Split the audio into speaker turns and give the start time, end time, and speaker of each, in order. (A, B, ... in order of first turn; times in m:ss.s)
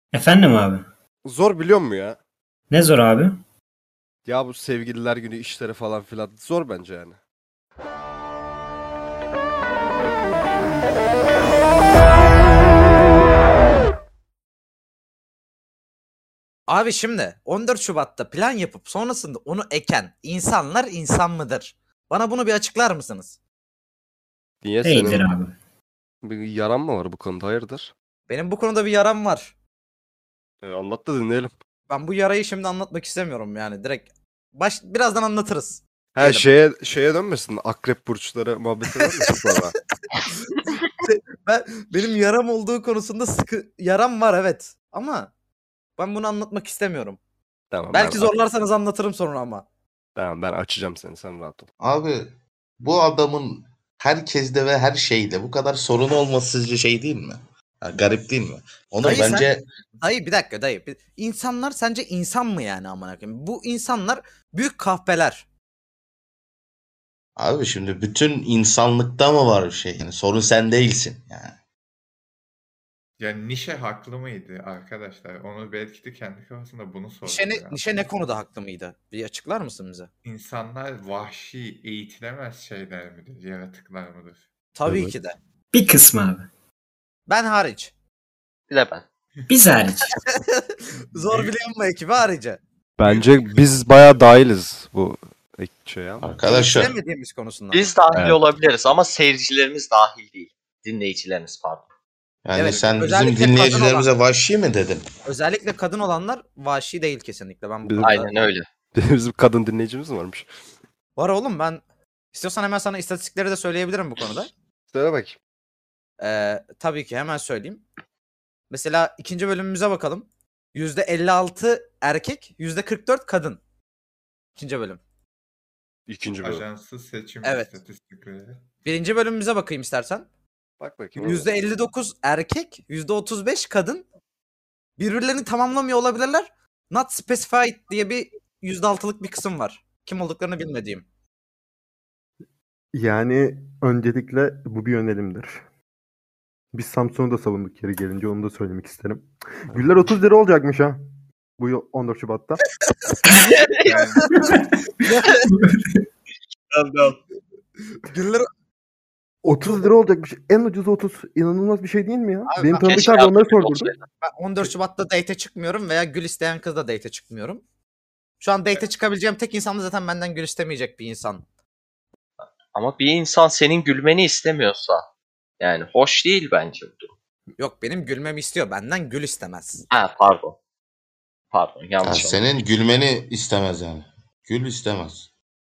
0:00.1-0:00.9 A
0:01.2-0:02.2 B
0:02.7-0:03.4 A
0:04.3-0:07.2 B
0:16.7-0:23.4 C
0:24.6-0:25.3 B
0:24.8-0:25.6 A
0:26.2-0:27.9 B
0:28.3-0:29.5 C
0:30.6-0:31.5 B
0:31.9-0:36.5 C
0:36.2-0:39.8 B
0:40.7-0:45.3 C
0:46.0-0:47.2 C
0:47.7-0:48.3 B
0:47.9-0:49.6 C
0:50.2-0:51.7 B
0:51.8-0:59.7 D
0:59.0-0:59.5 C
1:00.0-1:05.4 C
1:07.4-1:11.6 D
1:13.2-1:17.8 E
1:17.2-1:20.1 C
1:20.2-1:24.4 E
1:24.8-1:25.4 C
1:24.9-1:25.1 B
1:25.7-1:26.5 A
1:27.3-1:27.9 C
1:28.7-1:29.0 F
1:29.5-1:30.2 A
1:30.2-1:32.6 C
1:31.2-1:31.6 E
1:33.0-1:36.4 B
1:33.0-1:33.4 E
1:36.2-1:37.0 D
1:36.4-1:37.9 C
1:37.7-1:41.8 F
1:38.1-1:38.4 B
1:42.4-1:45.1 D
1:42.5-1:44.1 C
1:42.7-1:43.1 E
1:45.3-1:48.3 C
1:47.8-1:48.2 B
1:48.0-1:48.7 F
1:49.0-1:50.5 B
1:51.2-1:51.8 C
1:52.3-1:54.5 C
1:54.9-1:55.4 B
1:56.2-1:57.8 C
1:58.7-2:03.6 C
2:04.6-2:05.0 C
2:06.1-2:06.7 B
2:06.4-2:08.6 E
2:07.4-2:07.7 C
2:08.8-2:10.3 C
2:10.8-2:11.5 B
2:11.2-2:14.0 C
2:15.0-2:21.0 C
2:22.9-2:25.6 G
2:26.7-2:31.0 G
2:31.6-2:32.6 G
2:33.3-2:34.3 F
2:33.9-2:34.1 E
2:33.9-2:34.4 C
2:35.0-2:35.5 C
2:35.5-2:36.0 A
2:36.7-2:37.2 F
2:38.1-2:38.5 C
2:39.4-2:43.9 G
2:42.5-2:43.2 C
2:42.8-2:44.0 F
2:44.2-2:47.6 C
2:48.4-2:51.4 C
2:52.7-2:55.1 F
2:55.6-2:57.1 F
2:57.6-2:59.8 C
2:59.9-3:00.6 F
3:01.5-3:02.5 F
3:02.0-3:05.3 D